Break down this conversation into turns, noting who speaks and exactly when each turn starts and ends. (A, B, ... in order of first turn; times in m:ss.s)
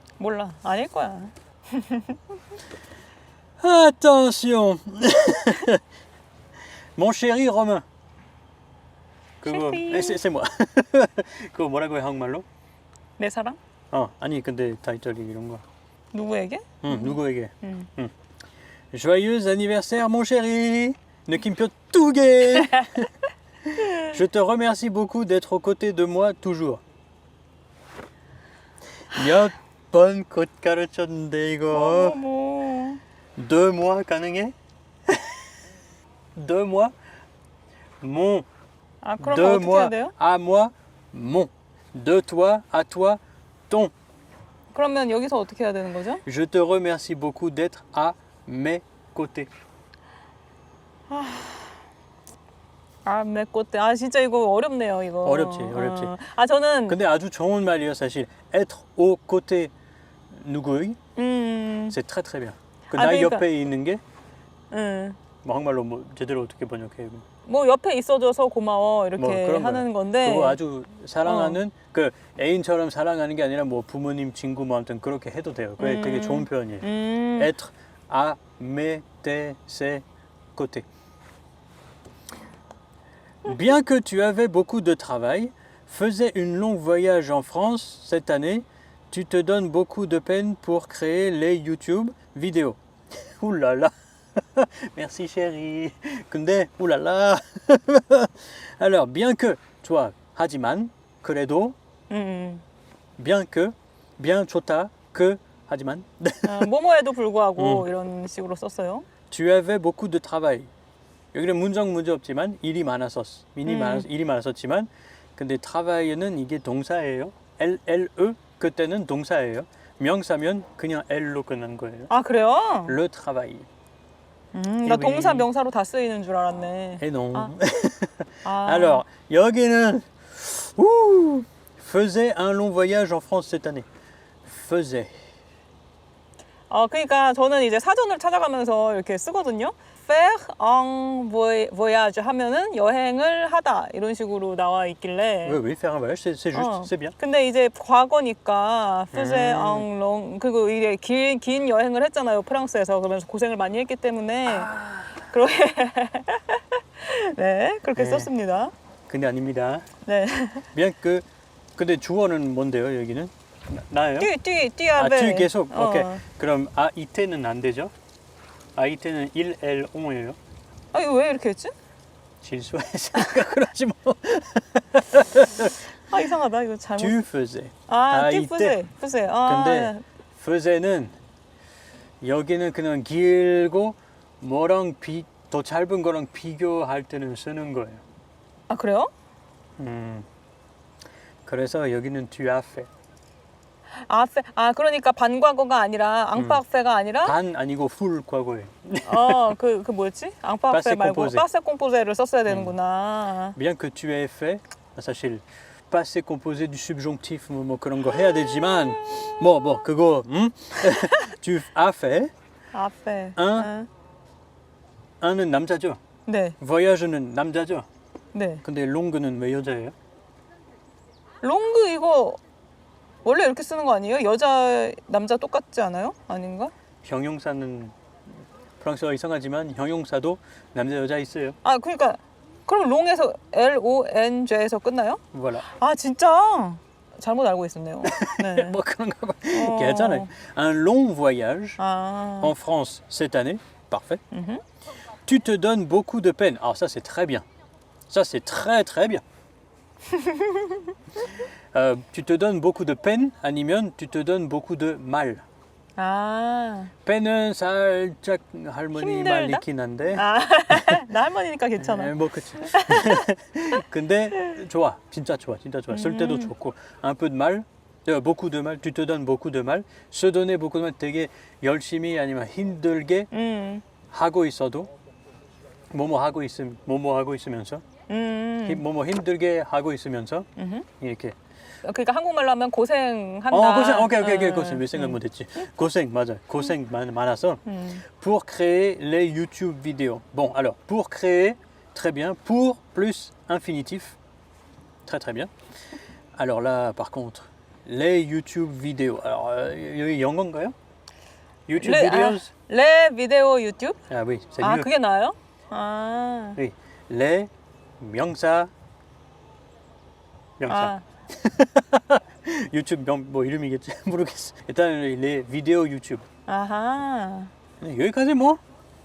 0:00.2-0:02.2 A
0:03.6-0:05.8 B
0:07.0-0:07.8 B
0:09.4-0:12.5 B
0:09.4-0:10.2 A
0:13.2-0:13.6 A
0:13.9-0:15.6 B
0:16.1-0:17.9 A
0:16.8-0:18.1 B
0:18.9-0:23.1 B
0:22.5-0:23.0 A
0:23.7-0:26.8 B
0:29.1-0:32.2 B
0:31.7-0:33.0 A
0:33.4-0:34.6 B
0:35.1-0:35.5 B
0:36.4-0:36.9 B
0:38.0-0:38.5 B
0:39.0-0:40.1 A
0:39.2-0:43.9 B
0:44.7-0:46.2 A
0:46.3-0:49.5 B
0:51.1-0:51.8 A
0:53.0-0:57.0 A
0:55.2-0:56.2 B
0:56.9-0:59.7 B
1:00.3-1:01.0 B
1:01.2-1:02.0 A
1:01.9-1:04.0 B
1:02.9-1:03.4 A
1:04.7-1:05.2 A
1:05.4-1:07.2 B
1:07.5-1:10.6 A
1:09.2-1:20.9 B
1:11.2-1:11.6 A
1:15.8-1:17.5 A
1:23.4-1:41.8 B
1:42.1-1:42.6 A
1:43.2-1:46.7 B
1:46.5-1:49.1 A
1:47.6-1:47.9 B
1:49.3-1:50.7 B
1:51.3-2:02.1 B
1:53.7-1:54.0 A
2:02.1-2:03.0 A
2:02.8-2:03.7 B
2:04.5-2:07.5 A
2:04.8-2:05.5 B
2:07.0-2:13.9 B
2:08.4-2:09.0 A
2:14.5-2:15.2 B
2:16.7-2:25.6 A
2:25.4-2:27.2 B
2:26.5-2:38.7 A
2:29.1-2:29.9 B
2:34.5-2:35.2 B
2:38.0-2:38.3 B
2:39.1-2:39.8 B
2:40.0-2:40.7 A
2:40.7-2:44.3 B
2:44.2-2:46.2 A
2:45.0-2:47.9 B
2:48.8-2:50.4 B
2:50.9-2:51.7 A
2:52.4-2:55.8 B
2:56.1-2:57.2 A
2:57.0-2:58.8 B
2:57.9-3:00.0 A
2:59.4-3:01.2 B
3:02.2-3:08.0 B
3:08.7-3:09.1 A
3:09.8-3:10.3 B
3:11.4-3:12.9 B
3:14.0-3:17.4 A
3:16.4-3:16.6 B
3:17.2-3:19.6 B
3:19.0-3:23.6 A
3:20.7-3:21.4 B
3:22.5-3:22.7 B
3:23.6-3:32.3 B
3:32.7-3:33.9 A
3:33.4-3:33.7 B
3:35.2-3:36.0 B
3:36.3-3:36.6 A
3:36.6-3:37.9 B
3:38.3-3:38.6 A
3:38.6-3:40.0 B
3:41.4-3:42.4 A
3:43.2-3:46.7 A
3:47.0-3:48.0 B
3:48.8-3:51.6 B
3:51.6-3:58.8 A
3:55.3-3:55.7 B
3:58.1-4:01.8 B
3:59.5-4:00.3 A
4:01.8-4:02.5 A
4:02.4-4:04.2 B
4:04.3-4:04.6 A
4:05.2-4:07.4 B
4:08.1-4:09.2 B
4:10.1-4:10.8 A
4:11.4-4:15.4 B
4:16.0-4:16.9 A
4:17.0-4:21.0 B
4:19.0-4:23.2 A
4:21.8-4:33.3 B
4:25.9-4:26.5 A
4:33.3-4:33.8 A
4:34.1-4:34.9 B
4:35.9-4:37.8 B
4:38.1-4:38.8 A
4:38.6-4:40.5 B
4:40.6-4:40.9 A
4:41.0-4:41.4 B
4:41.8-4:45.2 A
4:43.5-4:54.2 B
4:47.7-4:48.0 A
4:55.1-4:55.5 B
4:56.4-5:00.8 B
5:01.7-5:02.5 B
5:01.8-5:04.0 A
5:04.1-5:04.9 B
5:04.6-5:06.6 A
5:06.6-5:08.7 B
5:10.6-5:16.2 B
5:10.7-5:11.0 A
5:16.5-5:17.5 A
5:17.8-5:18.6 B